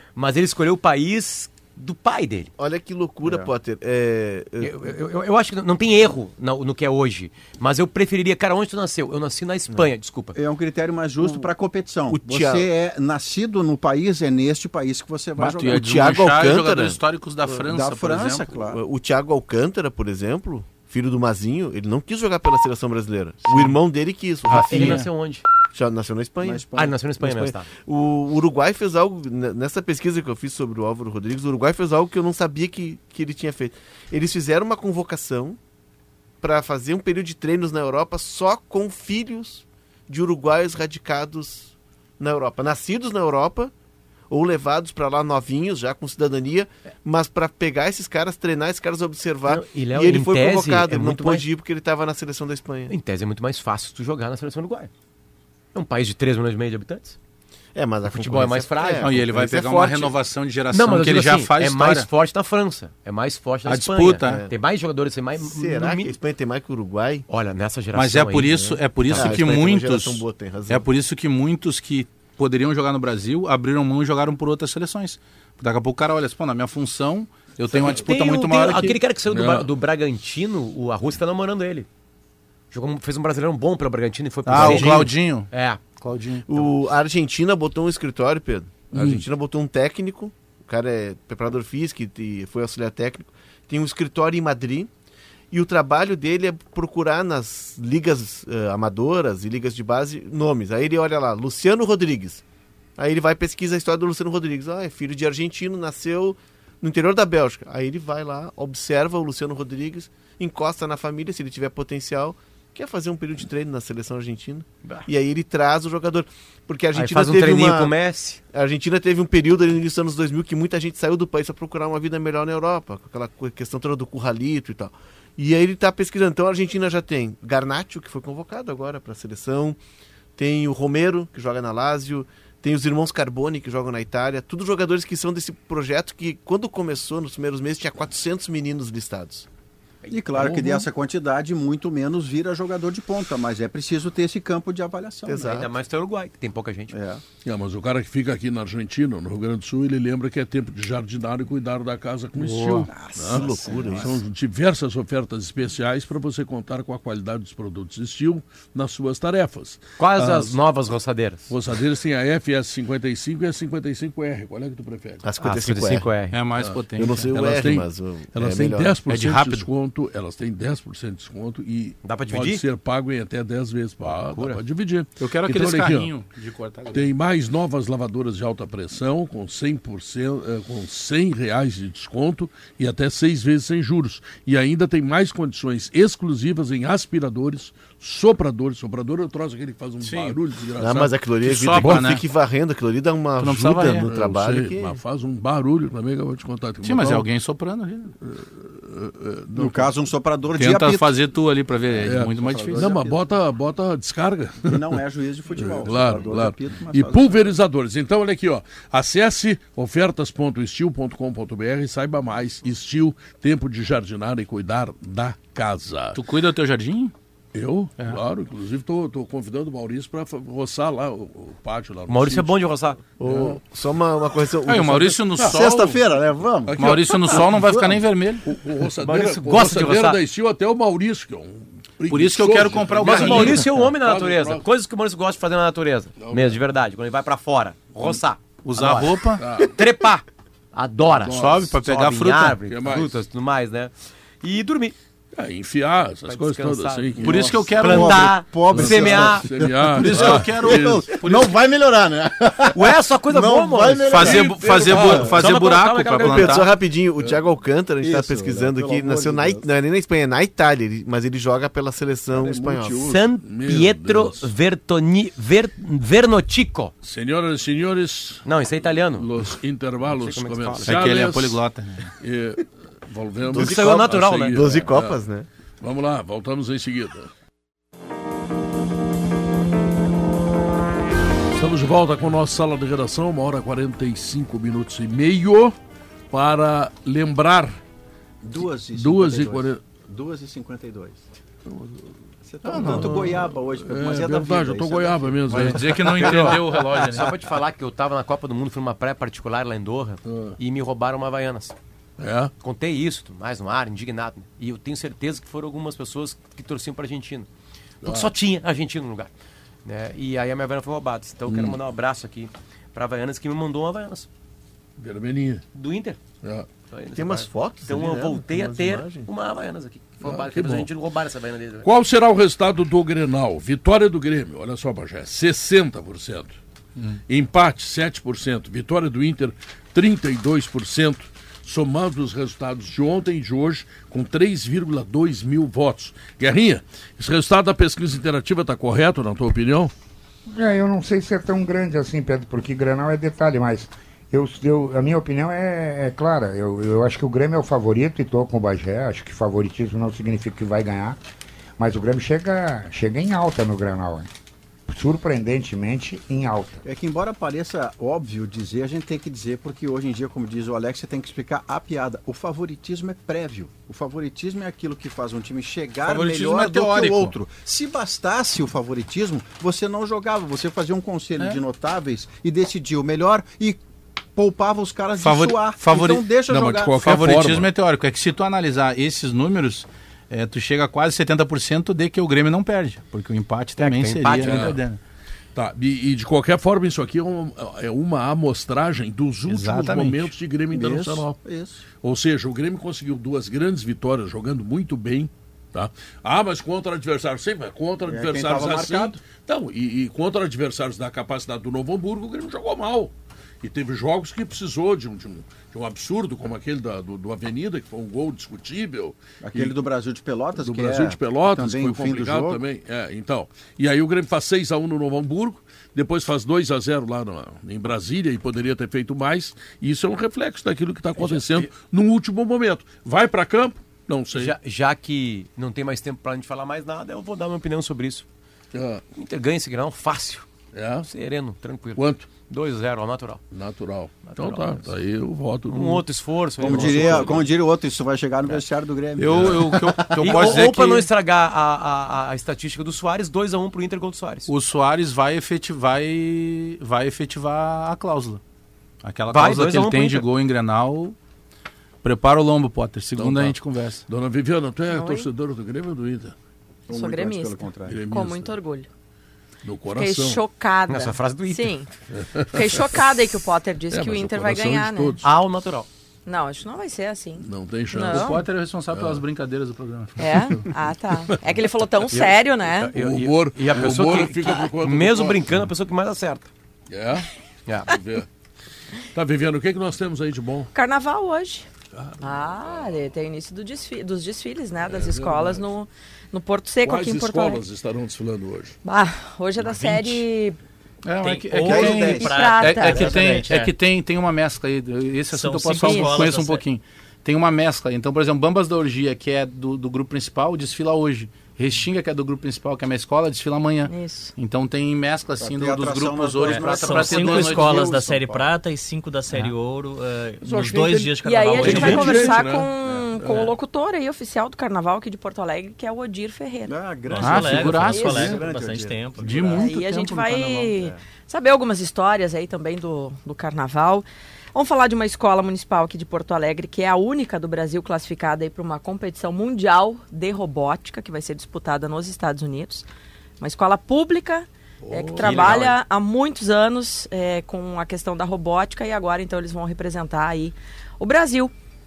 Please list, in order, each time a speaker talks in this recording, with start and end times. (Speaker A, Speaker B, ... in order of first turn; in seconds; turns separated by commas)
Speaker A: 0.2-2.5, Speaker B: 2.6-4.9, Speaker C: 3.2-3.5, Speaker A: 4.6-10.4, Speaker C: 10.3-15.8, Speaker B: 11.2-11.5, Speaker B: 12.1-12.7, Speaker D: 15.4-18.5, Speaker B: 15.7-17.6, Speaker C: 17.7-18.8, Speaker B: 18.7-25.1, Speaker E: 24.5-24.9, Speaker A: 24.5-25.5, Speaker B: 25.7-26.6, Speaker C: 26.4-27.0, Speaker A: 26.8-27.7, Speaker B: 27.2-35.6, Speaker B: 36.4-43.7, Speaker B: 44.3-52.9, Speaker A: 49.5-51.5, Speaker A: 52.9-54.9, Speaker A: 55.7-57.2, Speaker B: 57.8-60.1, Speaker A: 58.1-59.1, Speaker D: 58.9-62.1, Speaker A: 60.7-66.2, Speaker D: 63.6-64.5, Speaker B: 64.2-64.5, Speaker B: 65.4-67.3, Speaker A: 67.3-69.4, Speaker D: 67.9-79.0, Speaker B: 68.5-70.9, Speaker A: 77.7-81.9, Speaker E: 79.3-79.7, Speaker A: 82.7-85.8, Speaker D: 84.5-86.5, Speaker B: 84.6-84.9, Speaker B: 86.5-94.9, Speaker E: 88.9-89.3, Speaker B: 95.5-102.4, Speaker B: 103.0-118.0, Speaker A: 116.9-118.4, Speaker B: 118.5-129.8, Speaker B: 130.4-139.5, Speaker C: 140.1-145.7, Speaker E: 140.3-140.9, Speaker B: 145.3-145.7, Speaker A: 145.4-146.9, Speaker C: 146.9-147.2, Speaker E: 147.4-160.6, Speaker D: 152.4-152.9, Speaker C: 152.6-154.2, Speaker B: 153.3-154.2, Speaker A: 160.0-161.5, Speaker E: 161.5-165.3, Speaker B: 165.2-166.1, Speaker A: 165.4-166.4, Speaker D: 166.2-167.6, Speaker E: 166.6-176.1, Speaker B: 167.0-169.0, Speaker D: 169.1-169.7, Speaker A: 172.0-172.6, Speaker A: 174.1-174.6, Speaker D: 175.2-177.1, Speaker E: 176.9-191.1, Speaker D: 190.0-190.4, Speaker B: 190.8-195.0, Speaker D: 190.9-192.2, Speaker E: 191.7-192.1, Speaker D: 193.4-194.1, Speaker E: 194.0-197.3, Speaker D: 196.8-198.1, Speaker E: 198.2-199.9, Speaker C: 199.5-201.2, Speaker D: 200.6-203.1, Speaker C: 201.9-203.3, Speaker E: 202.0-205.0, Speaker C: 204.6-207.5, Speaker E: 205.5-216.2, Speaker D: 216.2-217.1, Speaker E: 217.5-222.6, Speaker A: 222.1-223.0, Speaker B: 223.2-225.3, Speaker E: 223.2-223.6, Speaker D: 224.7-226.0, Speaker E: 225.3-225.9, Speaker C: 225.4-227.5, Speaker E: 226.7-227.9, Speaker D: 226.8-228.5, Speaker E: 228.4-234.6, Speaker A: 229.0-230.2, Speaker D: 232.1-233.6, Speaker A: 233.0-244.9, Speaker E: 236.2-236.6, Speaker D: 238.6-239.4, Speaker E: 239.4-239.8, Speaker E: 241.2-241.7, Speaker D: 241.3-242.6, Speaker E: 242.7-243.1, Speaker E: 245.3-248.1, Speaker A: 246.3-249.6, Speaker C: 247.2-255.4, Speaker D: 247.2-248.4, Speaker E: 248.7-251.1, Speaker D: 249.9-251.6, Speaker A: 252.7-256.6, Speaker D: 254.1-256.7, Speaker E: 254.2-255.3, Speaker B: 256.2-263.1, Speaker C: 258.0-259.7, Speaker C: 262.3-263.2, Speaker A: 263.0-266.9, Speaker E: 263.4-264.5, Speaker E: 267.0-268.5, Speaker A: 268.4-269.3, Speaker E: 269.1-271.6, Speaker A: 270.1-271.0, Speaker D: 270.8-272.1, Speaker E: 272.2-275.2, Speaker B: 273.5-275.5, Speaker A: 273.5-274.6, Speaker E: 275.8-277.3, Speaker E: 281.5-285.8, Speaker E: 286.3-287.8, Speaker C: 288.4-291.2, Speaker E: 288.9-289.8, Speaker E: 291.7-292.1, Speaker C: 292.5-297.1, Speaker D: 292.7-293.2, Speaker B: 292.9-293.3, Speaker E: 293.0-296.6, Speaker D: 295.5-297.3, Speaker A: 296.4-301.8, Speaker E: 300.2-300.6, Speaker E: 302.2-302.5, Speaker A: 302.6-307.5, Speaker A: 308.0-309.3, Speaker E: 308.0-308.3, Speaker A: 309.9-314.3, Speaker E: 311.5-311.8, Speaker E: 315.0-315.6, Speaker A: 315.7-316.2, Speaker A: 316.9-321.9, Speaker B: 317.2-319.3, Speaker E: 320.2-320.9, Speaker E: 321.8-326.5, Speaker E: 327.3-339.9, Speaker F: 340.5-351.2, Speaker F: 351.8-354.3, Speaker F: 354.9-356.9, Speaker C: 356.9-373.8, Speaker D: 366.0-367.4, Speaker C: 374.4-376.9, Speaker D: 375.2-376.2, Speaker E: 376.5-377.7, Speaker D: 377.0-385.0, Speaker A: 383.8-384.8, Speaker E: 384.3-384.8, Speaker E: 385.6-391.4, Speaker D: 389.5-390.3, Speaker C: 390.7-391.8, Speaker E: 392.0-409.8, Speaker C: 398.1-399.2, Speaker C: 409.4-412.6, Speaker E: 410.6-424.6, Speaker A: 421.2-421.7, Speaker A: 424.3-428.3, Speaker E: 428.7-429.0, Speaker A: 429.1-430.5, Speaker E: 430.7-431.1, Speaker A: 431.0-433.4, Speaker E: 432.0-432.3, Speaker E: 433.5-436.0, Speaker A: 434.3-434.9, Speaker A: 435.7-437.5, Speaker C: 436.6-440.6, Speaker E: 436.6-437.4, Speaker D: 439.2-441.1, Speaker A: 440.2-444.5, Speaker D: 444.5-448.4, Speaker D: 449.0-451.2, Speaker A: 449.3-450.2, Speaker D: 452.0-454.1, Speaker E: 453.2-456.3, Speaker G: 454.9-455.3, Speaker C: 456.9-458.1, Speaker G: 456.9-458.9, Speaker E: 457.9-458.5, Speaker E: 459.6-460.4, Speaker G: 459.9-461.9, Speaker A: 460.9-461.7, Speaker E: 462.1-463.0, Speaker G: 462.4-465.2, Speaker E: 463.9-465.2, Speaker A: 465.2-465.9, Speaker G: 466.3-468.4, Speaker E: 467.4-469.2, Speaker D: 468.1-470.3, Speaker G: 470.2-472.9, Speaker E: 470.2-471.6, Speaker A: 472.1-476.5, Speaker E: 472.9-475.6, Speaker E: 476.9-477.3, Speaker A: 477.7-477.9, Speaker E: 477.9-478.3, Speaker E: 479.1-480.7, Speaker G: 480.7-481.7, Speaker E: 481.9-483.0, Speaker G: 482.2-487.6, Speaker E: 484.9-485.6, Speaker E: 486.9-488.8, Speaker G: 488.8-490.6, Speaker E: 489.6-490.2, Speaker D: 491.0-508.0, Speaker H: 491.2-493.8, Speaker C: 491.6-492.9, Speaker G: 492.2-493.5, Speaker H: 495.3-496.6, Speaker G: 495.7-496.4, Speaker G: 503.9-504.3, Speaker C: 505.4-508.5, Speaker H: 506.5-512.4, Speaker E: 510.4-513.5, Speaker G: 511.2-516.8, Speaker D: 511.6-512.0, Speaker C: 516.7-521.0, Speaker H: 517.1-519.4, Speaker D: 517.2-518.3, Speaker G: 517.9-518.4, Speaker D: 519.2-520.2, Speaker G: 519.5-532.9, Speaker G: 533.4-541.5, Speaker E: 534.8-535.5, Speaker A: 535.2-535.8